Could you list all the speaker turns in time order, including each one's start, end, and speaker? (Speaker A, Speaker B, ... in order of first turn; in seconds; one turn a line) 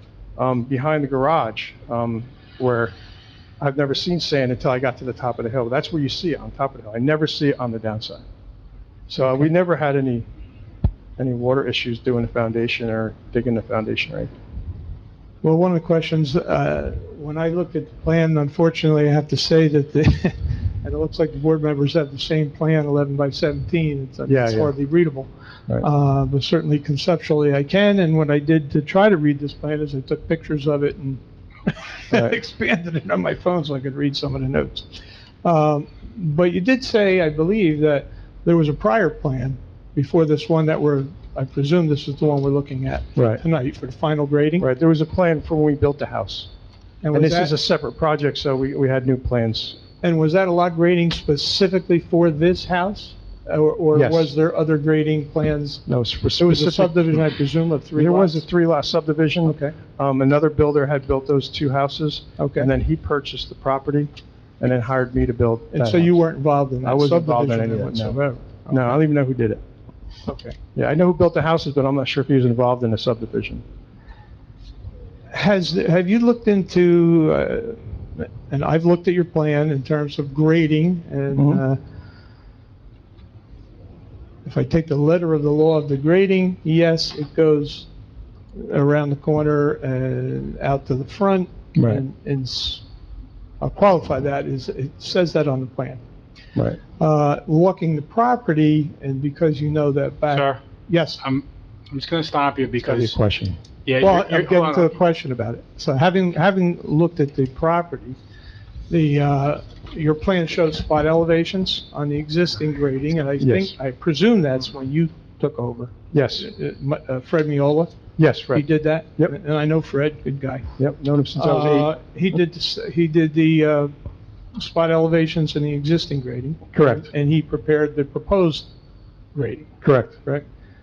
Speaker A: 0.4-3.0
Speaker A: 3.6-8.2
Speaker B: 9.1-9.5
Speaker A: 9.1-10.3
Speaker A: 11.2-14.3
Speaker B: 15.4-44.7
Speaker A: 24.3-24.7
Speaker A: 43.2-43.4
Speaker A: 44.6-46.5
Speaker B: 47.0-47.5
Speaker A: 47.1-49.8
Speaker B: 50.0-55.8
Speaker A: 54.0-54.3
Speaker A: 55.9-57.2
Speaker B: 56.4-58.5
Speaker A: 58.0-66.2
Speaker B: 59.5-59.8
Speaker B: 62.4-62.7
Speaker B: 65.7-69.0
Speaker A: 66.8-69.6
Speaker B: 70.3-70.6
Speaker A: 70.8-73.6
Speaker B: 75.3-81.8
Speaker A: 81.3-81.6
Speaker B: 84.5-87.9
Speaker B: 88.5-92.8
Speaker A: 91.8-92.0
Speaker B: 93.6-96.0
Speaker A: 96.5-96.8
Speaker B: 97.0-101.2
Speaker C: 100.3-100.6
Speaker C: 101.2-103.2
Speaker A: 102.9-103.6
Speaker C: 103.8-105.0
Speaker B: 104.0-108.2
Speaker B: 108.9-118.0
Speaker A: 113.4-113.7
Speaker A: 116.1-116.5
Speaker A: 118.2-118.6
Speaker B: 118.5-120.7
Speaker A: 120.8-121.9
Speaker B: 121.4-123.9
Speaker B: 124.5-128.7
Speaker A: 126.7-127.1
Speaker B: 129.3-130.4
Speaker A: 129.8-130.2